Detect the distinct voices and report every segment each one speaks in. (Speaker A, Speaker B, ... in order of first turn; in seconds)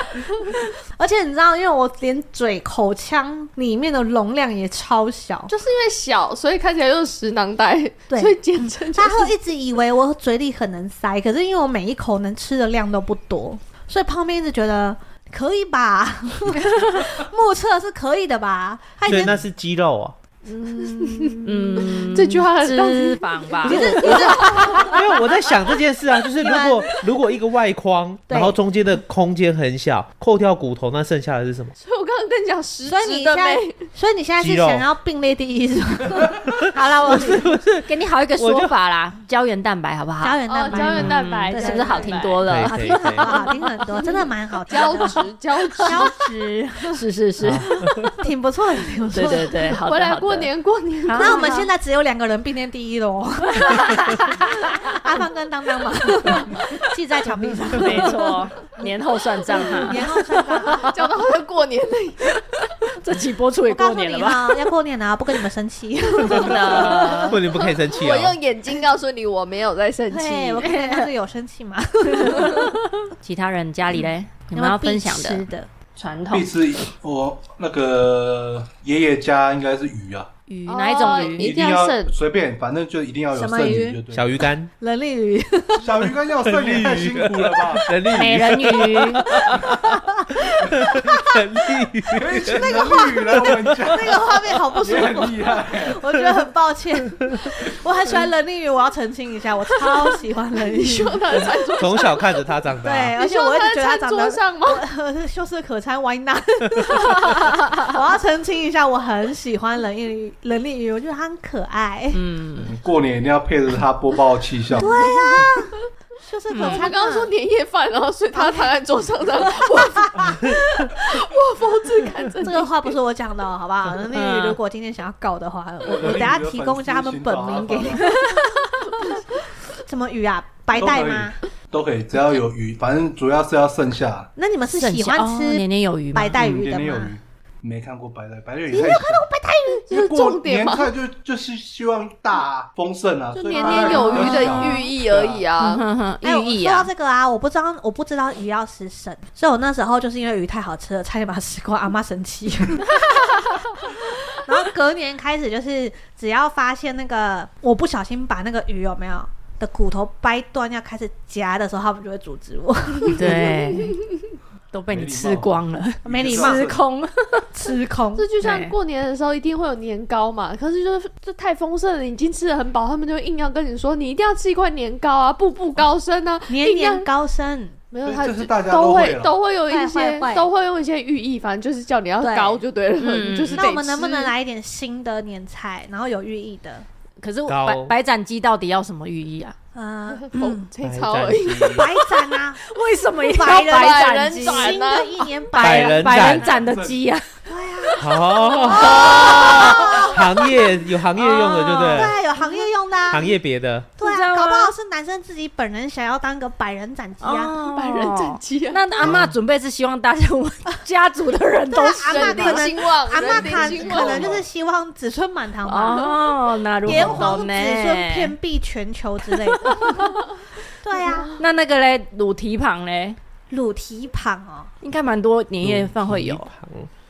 Speaker A: 0.5-5.5, 8.1-19.4, 21.0-21.3, 23.6-25.1, 26.4-26.9, 28.3-28.6, 32.9-37.5, 40.2-47.0, 48.1-49.8, 51.1-58.9, 59.5-60.9, 63.7-67.2, 70.1-72.8, 74.0-75.7, 83.3-84.0, 84.8-86.2, 89.3-91.4, 92.5-101.5, 102.8-112.2, 114.8-117.3, 118.3-118.7, 119.4-120.6, 122.4-128.4, 129.8-131.4, 134.4-137.2, 138.7-139.9, 143.4-144.8, 146.2-163.5, 166.1-166.7, 167.5-168.3, 176.5-177.8, 179.7-180.5, 182.2-182.6, 183.5-186.9, 189.8-190.7, 191.7-192.6, 193.2-196.6, 197.5-200.4, 201.2-203.4, 204.0-207.6, 211.7-216.2, 216.8-220.2, 220.8-221.3, 223.5-224.7
Speaker B: 5.5-9.3, 20.6-25.0, 31.8-33.9, 40.5-42.5, 44.7-46.1, 49.8-51.7, 59.7-60.1, 60.6-62.4, 66.8-70.7, 80.7-82.1, 100.7-102.4, 103.2-104.8, 116.6-122.9, 139.9-140.9, 143.4-145.8, 163.5-164.0, 168.2-177.1, 177.9-184.3, 190.1-191.9, 193.4-195.3, 207.7-208.9, 212.1-214.4
Speaker C: 19.1-20.2, 24.9-31.8, 34.4-34.9, 36.5-37.9, 38.4-38.8, 42.5-43.3, 47.4-48.1, 67.3-68.4, 84.1-84.7, 86.5-89.9, 90.4-94.0, 97.2-97.5, 101.8-103.2, 187.5-187.9, 190.8-191.9, 195.6-196.7, 198.0-202.2, 203.1-203.9, 225.6-226.9
Speaker D: 21.0-24.8, 36.9-43.5, 45.6-46.0, 46.9-48.0, 49.1-50.5, 51.1-51.5, 53.5-55.0, 57.7-60.0, 62.9-64.6, 66.2-67.4, 70.6-71.1, 72.2-75.5, 76.0-76.5, 80.5-81.6, 88.1-89.3, 112.1-112.8, 116.5-116.9, 124.1-124.6, 128.0-128.4, 134.7-136.4, 143.9-144.8, 145.6-146.9, 163.1-164.0, 164.7-167.5, 168.4-168.7, 183.0-183.7, 187.2-189.6, 192.6-194.8, 195.5-197.3, 197.8-200.0, 204.0-204.7, 207.2-212.7, 215.7-218.3, 219.6-220.1, 221.3-223.2, 224.8-226.5
Speaker E: 76.3-80.3, 81.1-84.5, 85.8-88.4, 92.1-96.1, 112.6-115.5, 125.8-128.1, 130.8-134.3, 136.3-139.3, 139.9-145.5, 164.9-166.8, 178.1-179.4, 196.5-197.0, 213.9-214.4, 216.8-217.4